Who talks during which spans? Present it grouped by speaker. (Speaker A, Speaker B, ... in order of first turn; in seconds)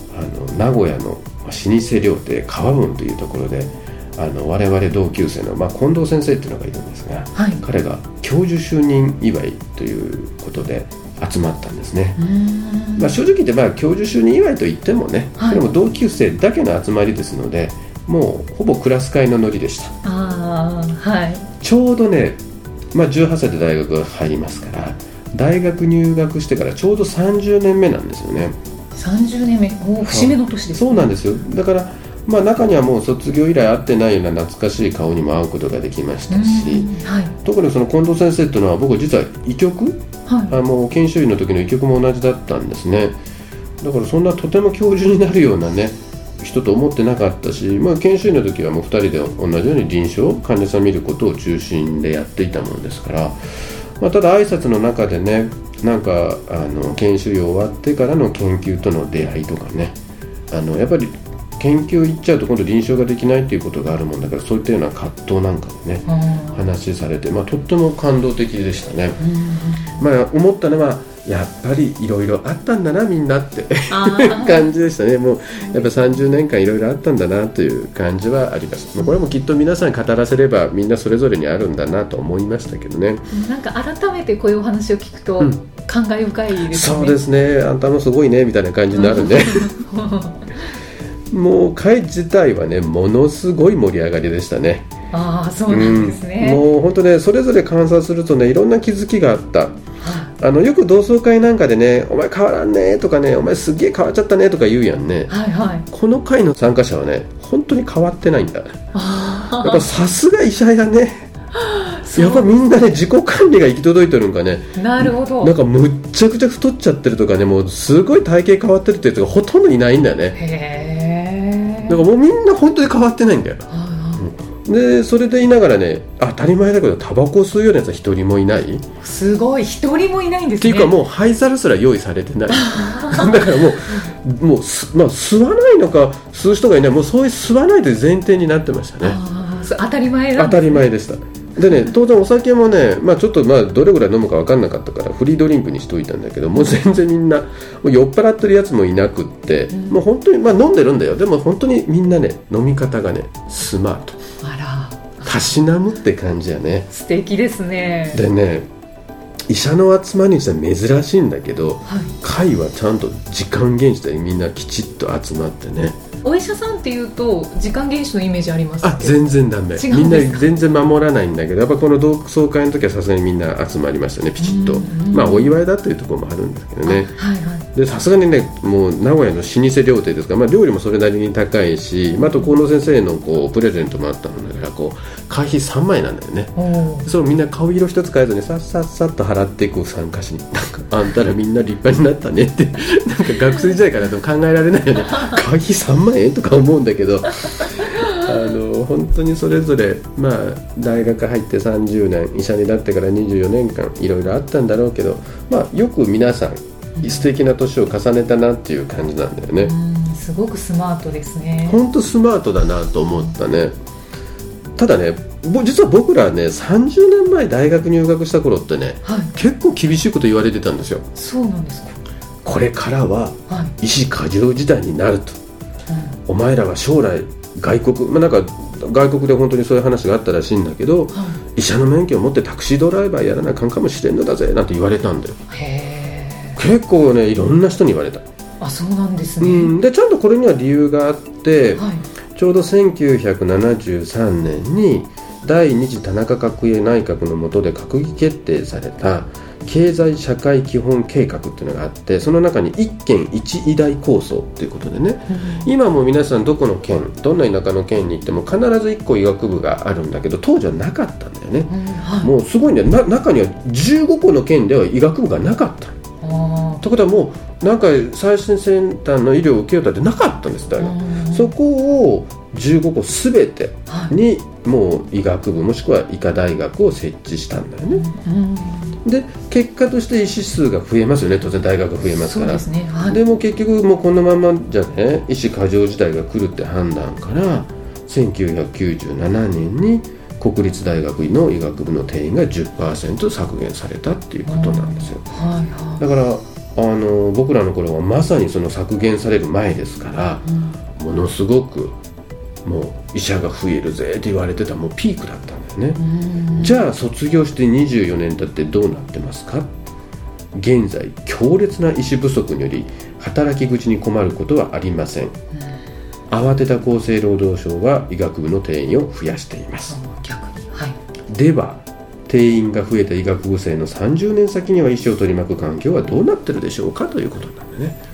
Speaker A: 0.1-12.2, 13.0-19.9, 21.6-22.4, 22.9-28.6, 30.0-36.9, 37.4-43.2, 43.8-53.4, 54.0-60.0, 60.5-69.2, 70.0-83.3, 86.7-89.7, 91.3-94.9, 95.7-99.8, 100.4-105.3, 105.9-108.8, 109.6-111.3, 112.2-120.4, 121.9-128.8, 130.6-139.2, 140.4-154.2, 155.2-156.9, 158.1-158.7, 159.5-166.0, 168.8-177.1, 177.7-209.7, 211.7-213.7, 214.8-221.1, 222.4-225.4, 226.3-235.4, 236.6-238.2, 239.4-265.9, 266.8-278.1, 279.1-295.3, 296.0-301.9, 302.6-306.0, 306.6-309.7, 310.5-315.4, 316.3-320.0, 321.3-328.0
Speaker B: 7.3-7.7, 12.2-13.2, 15.4-15.7, 20.0-21.5, 28.9-31.1, 36.3-37.4, 40.3-40.6, 66.1-66.6, 69.2-70.0, 73.9-74.7, 75.7-76.2, 83.3-87.2, 88.9-90.5, 95.1-96.6, 100.0-100.3, 105.3-105.9, 108.9-109.8, 111.6-112.7, 114.8-115.5, 120.4-122.0, 123.7-124.3, 129.0-130.9, 132.6-133.3, 139.0-140.9, 149.7-150.0, 154.4-155.5, 156.9-158.2, 161.9-162.1, 166.2-169.2, 169.7-170.5, 174.4-175.6, 176.8-177.7, 182.2-182.6, 186.6-187.1, 207.0-207.2, 209.6-211.8, 219.0-219.3, 221.2-222.0, 223.5-223.7, 231.1-231.4, 235.5-236.6, 238.6-239.7, 241.8-242.1, 255.3-255.7, 261.7-262.3, 266.2-266.8, 270.8-271.5, 273.9-274.1, 277.9-279.0, 282.2-283.2, 294.5-296.0, 300.5-300.8, 306.0-306.8, 319.9-321.0